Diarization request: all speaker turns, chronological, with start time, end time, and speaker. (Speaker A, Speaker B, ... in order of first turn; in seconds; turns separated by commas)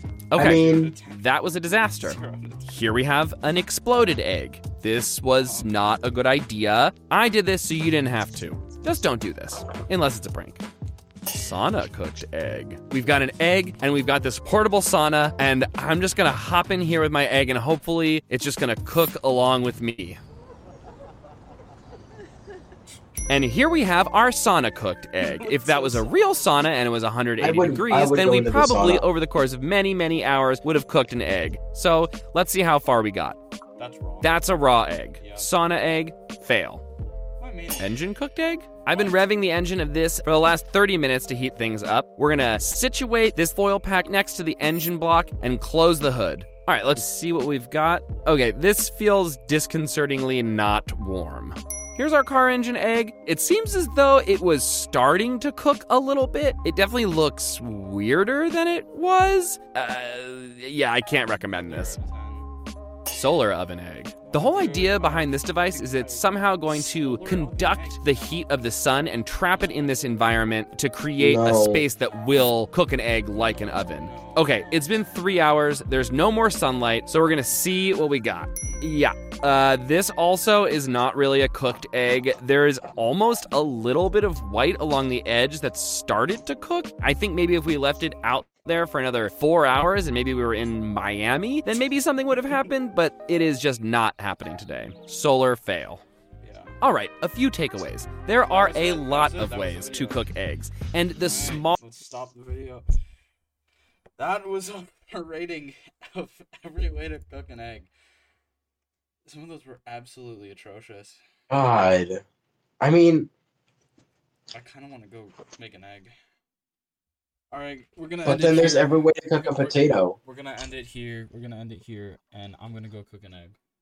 Speaker A: 0.3-10.6, Speaker B: 0.3-0.9, Speaker C: 0.4-1.2, Speaker C: 2.0-2.7, Speaker C: 5.4-6.0, Speaker A: 11.3-20.2, Speaker A: 23.3-33.4, Speaker C: 25.2-26.7, Speaker B: 27.4-29.1, Speaker C: 33.8-34.3, Speaker A: 34.2-36.8, Speaker C: 35.2-35.5, Speaker C: 37.4-38.0, Speaker A: 37.8-62.0, Speaker C: 38.9-39.2, Speaker C: 61.5-62.5, Speaker A: 63.1-96.0, Speaker C: 64.2-68.6, Speaker C: 69.5-70.2, Speaker B: 71.2-71.8, Speaker C: 73.8-75.2, Speaker C: 96.4-96.8, Speaker A: 96.8-101.8, Speaker C: 98.5-100.2, Speaker C: 101.2-103.0, Speaker C: 104.2-107.9, Speaker C: 109.2-111.2, Speaker B: 111.5-112.2, Speaker B: 112.8-113.3, Speaker C: 114.5-116.1, Speaker C: 117.5-123.6, Speaker B: 118.2-120.2